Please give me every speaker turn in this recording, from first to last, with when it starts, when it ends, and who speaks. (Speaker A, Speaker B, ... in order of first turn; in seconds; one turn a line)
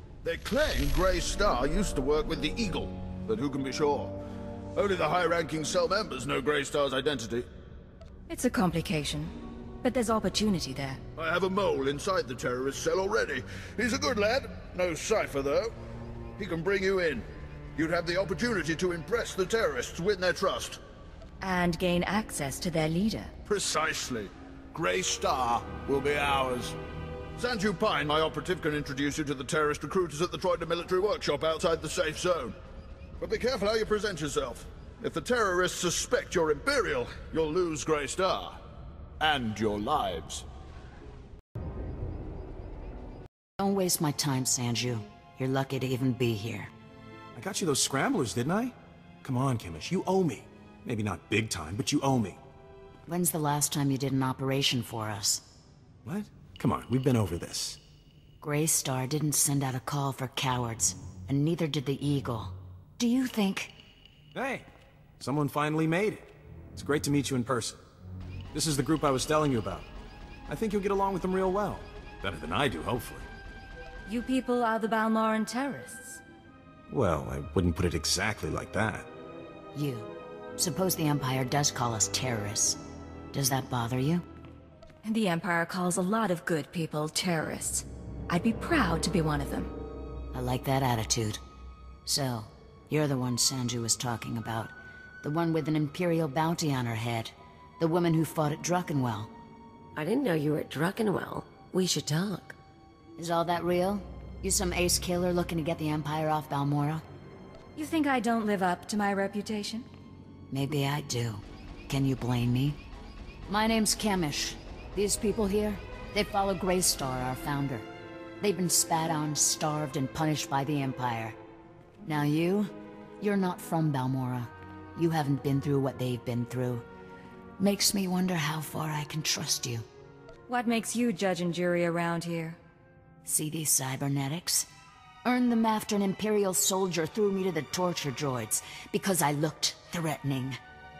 Speaker A: 0.2-4.2
Speaker A: 4.8-7.5
Speaker B: 8.3-11.0
Speaker A: 11.2-15.7
Speaker A: 16.4-20.8
Speaker B: 21.4-23.3
Speaker A: 23.5-26.8
Speaker A: 27.4-32.6
Speaker A: 33.2-38.6
Speaker A: 39.2-40.4
Speaker C: 43.6-46.7
Speaker D: 47.3-52.4
Speaker C: 53.1-55.4
Speaker D: 56.0-57.8
Speaker C: 58.4-63.7
Speaker D: 64.3-64.7
Speaker D: 65.2-67.8
Speaker D: 68.5-69.9
Speaker D: 70.5-73.3
Speaker B: 74.0-76.2
Speaker D: 76.9-79.1
Speaker C: 79.7-82.8
Speaker C: 83.3-84.2
Speaker B: 85.0-89.7
Speaker C: 90.3-91.4
Speaker C: 92.0-99.3
Speaker E: 100.0-102.5
Speaker C: 103.2-107.0
Speaker B: 107.8-109.8
Speaker C: 110.5-112.8
Speaker C: 113.5-117.8
Speaker C: 118.4-121.4
Speaker C: 122.0-126.8
Speaker C: 127.6-129.8
Speaker B: 130.5-132.6
Speaker C: 133.2-134.7
Speaker C: 135.2-140.6